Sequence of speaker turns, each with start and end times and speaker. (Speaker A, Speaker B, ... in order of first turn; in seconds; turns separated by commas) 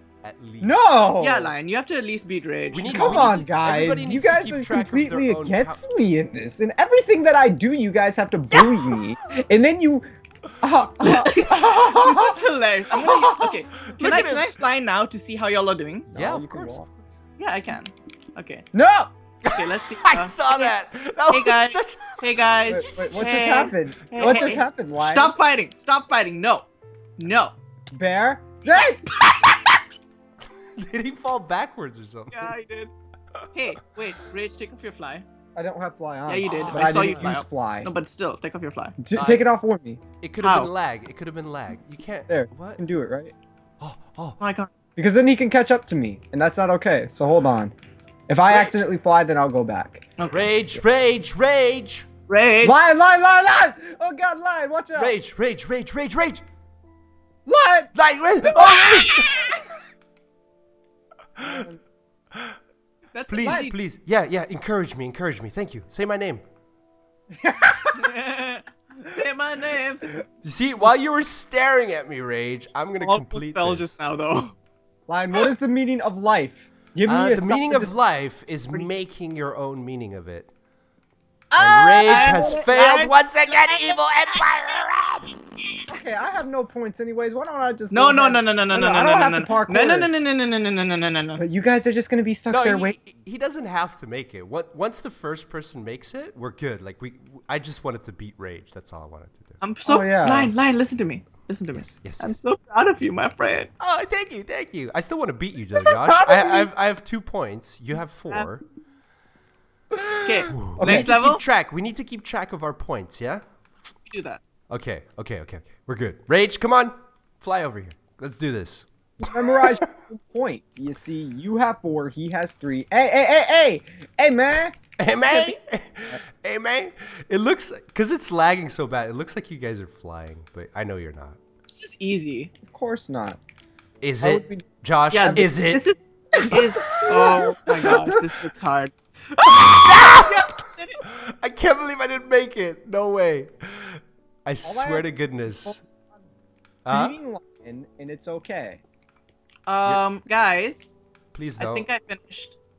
Speaker A: 0.2-0.8, Speaker B: 0.6-1.5, Speaker C: 1.2-3.3, Speaker A: 2.7-5.8, Speaker B: 2.9-10.1, Speaker C: 8.6-9.0, Speaker B: 10.6-13.6, Speaker C: 11.0-16.1, Speaker A: 13.8-14.5, Speaker A: 16.1-17.1, Speaker B: 16.1-16.9, Speaker C: 17.4-18.7, Speaker B: 18.7-19.1, Speaker A: 19.5-22.2, Speaker C: 19.5-20.7, Speaker C: 21.3-26.7, Speaker B: 22.7-25.4, Speaker A: 22.7-24.5, Speaker C: 27.2-27.6, Speaker B: 27.9-29.0, Speaker C: 29.1-29.8, Speaker A: 30.8-32.5, Speaker C: 32.3-32.9, Speaker C: 33.5-35.2, Speaker B: 35.5-37.9, Speaker C: 36.3-39.0, Speaker A: 36.4-37.3, Speaker B: 39.0-40.0, Speaker A: 39.1-39.5, Speaker A: 40.2-42.8, Speaker C: 40.4-40.7, Speaker B: 42.3-43.3, Speaker A: 43.8-44.4, Speaker C: 44.4-44.7, Speaker B: 45.0-47.7, Speaker B: 48.3-50.1, Speaker A: 48.5-48.7, Speaker C: 50.2-50.5, Speaker A: 50.3-52.1, Speaker C: 52.3-52.8, Speaker B: 52.6-55.1, Speaker A: 55.0-56.4, Speaker B: 57.5-59.5, Speaker A: 57.9-59.5, Speaker C: 58.8-59.4, Speaker A: 61.4-61.6, Speaker B: 61.4-61.8, Speaker C: 63.1-63.8, Speaker A: 63.3-66.4, Speaker B: 63.4-63.7, Speaker B: 67.4-68.1, Speaker C: 68.0-70.2, Speaker A: 70.4-73.9, Speaker C: 73.0-74.5, Speaker B: 75.1-78.0, Speaker A: 77.1-80.5, Speaker C: 81.5-84.4, Speaker A: 81.6-85.3, Speaker B: 82.0-82.7, Speaker B: 85.9-90.1, Speaker C: 87.9-91.4, Speaker B: 91.4-93.0, Speaker A: 92.5-99.6, Speaker C: 99.6-103.7, Speaker B: 99.8-100.5, Speaker A: 101.7-102.4, Speaker A: 103.8-108.6, Speaker B: 105.8-106.7, Speaker B: 110.0-111.1, Speaker C: 110.2-111.4, Speaker A: 110.5-113.4, Speaker C: 114.1-114.4, Speaker A: 114.7-118.9, Speaker B: 119.2-124.8, Speaker A: 119.5-119.8, Speaker A: 125.0-131.4, Speaker B: 125.3-125.6, Speaker C: 131.7-132.5, Speaker B: 132.7-133.4, Speaker A: 134.0-135.8, Speaker B: 134.2-134.7, Speaker C: 135.1-141.0, Speaker B: 135.2-135.5, Speaker B: 136.3-138.2, Speaker A: 139.5-145.8, Speaker B: 144.6-145.1, Speaker B: 145.6-145.9, Speaker A: 146.8-147.1, Speaker B: 146.9-148.8, Speaker C: 149.7-150.9, Speaker A: 151.3-151.9, Speaker C: 151.6-152.6